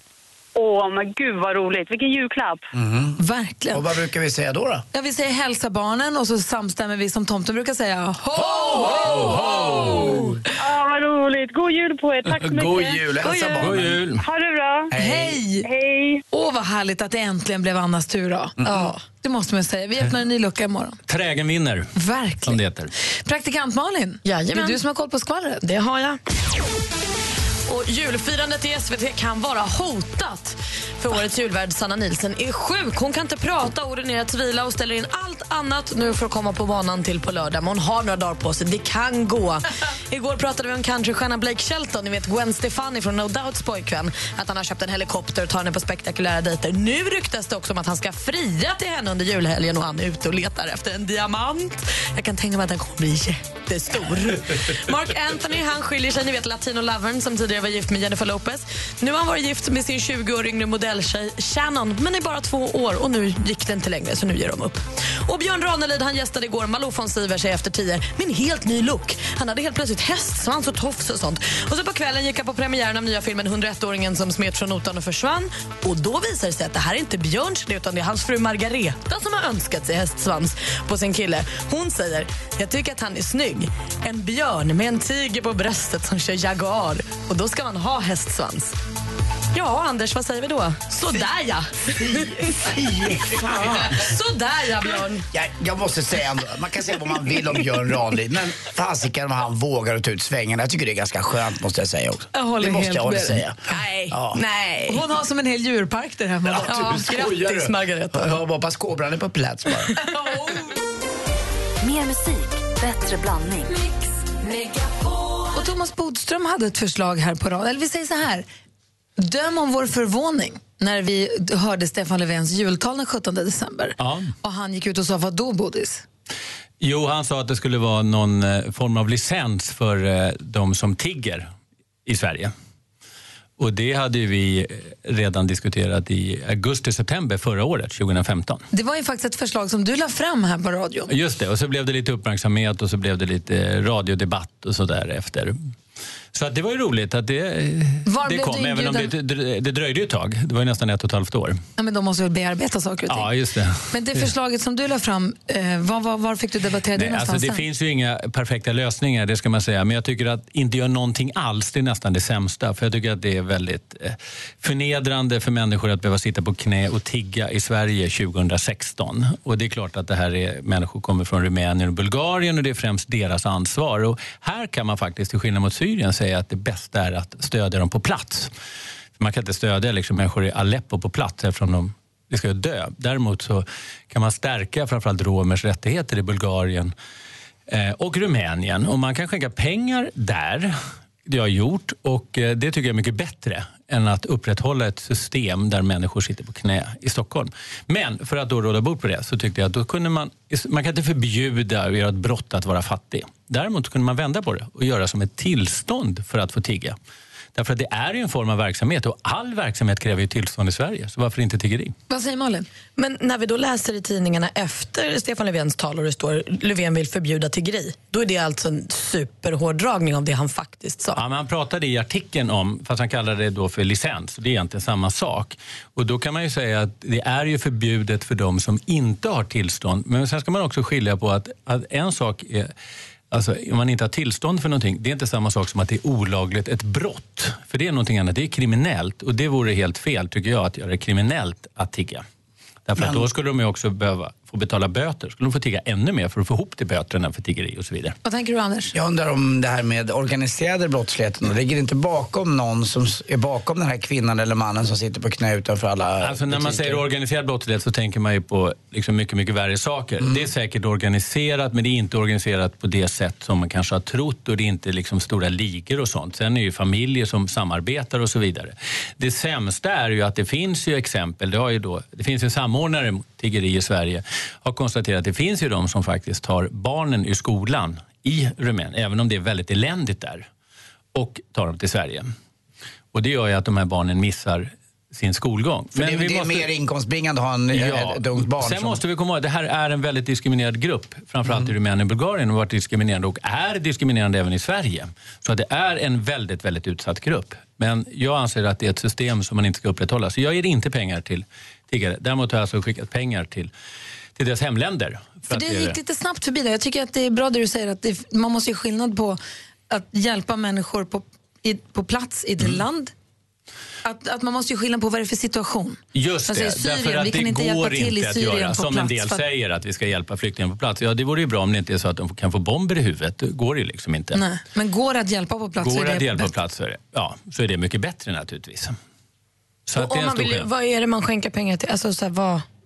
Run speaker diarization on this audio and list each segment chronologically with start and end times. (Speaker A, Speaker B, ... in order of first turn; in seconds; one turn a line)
Speaker A: 0.6-2.5
Speaker B: 2.7-3.2
Speaker C: 3.2-3.8
Speaker B: 3.7-4.8
Speaker C: 4.9-10.2
Speaker D: 9.1-10.0
Speaker B: 9.1-9.9
Speaker A: 10.6-13.0
Speaker B: 12.3-14.1
Speaker E: 13.2-13.8
Speaker D: 13.6-14.2
Speaker A: 14.2-14.8
Speaker B: 14.9-15.4
Speaker C: 14.9-15.7
Speaker A: 15.7-16.1
Speaker C: 16.3-18.6
Speaker B: 18.6-18.9
Speaker E: 18.6-19.0
Speaker C: 19.2-21.0
Speaker D: 21.1-21.9
Speaker C: 21.9-22.6
Speaker D: 22.4-22.9
Speaker C: 23.2-25.6
Speaker E: 24.2-24.8
Speaker E: 25.6-26.2
Speaker E: 27.7-88.8
Speaker E: 89.5-92.3
Speaker B: 92.0-94.0
Speaker E: 93.5-95.2
Speaker B: 95.3-104.4
Speaker C: 102.3-103.4
Speaker E: 103.7-105.0
Speaker C: 104.9-107.1
Speaker B: 106.5-110.0
Speaker E: 106.7-108.4
Speaker F: 111.8-113.8
Speaker C: 115.5-118.5
Speaker C: 119.2-126.0
Speaker D: 124.0-124.3
Speaker D: 126.8-131.5
Speaker D: 132.1-132.5
Speaker D: 133.6-138.6
Speaker C: 138.7-141.1
Speaker D: 141.1-145.6
Speaker D: 146.3-151.6
Speaker C: 148.1-149.1
Speaker C: 151.8-153.3
Speaker D: 153.1-154.2
Speaker C: 153.9-157.6
Speaker D: 156.9-178.5
Speaker D: 179.2-186.9
Speaker D: 187.7-207.0
Speaker D: 207.6-211.9
Speaker C: 212.1-212.7
Speaker E: 213.0-221.2
Speaker D: 221.2-232.7
Speaker D: 233.3-242.2
Speaker D: 242.9-248.2
Speaker B: 243.0-243.3
Speaker C: 248.2-248.9
Speaker B: 248.9-257.0
Speaker D: 256.2-280.5
Speaker B: 260.2-260.5
Speaker D: 281.1-282.3
Speaker D: 283.1-286.7
Speaker B: 285.9-289.0
Speaker D: 287.7-303.7
Speaker B: 291.5-291.7
Speaker D: 304.4-306.0
Speaker C: 305.5-309.4
Speaker C: 309.9-313.1
Speaker C: 314.1-319.4
Speaker D: 316.1-324.4
Speaker C: 324.3-326.5
Speaker D: 325.8-329.0
Speaker D: 329.9-330.7
Speaker E: 330.0-332.6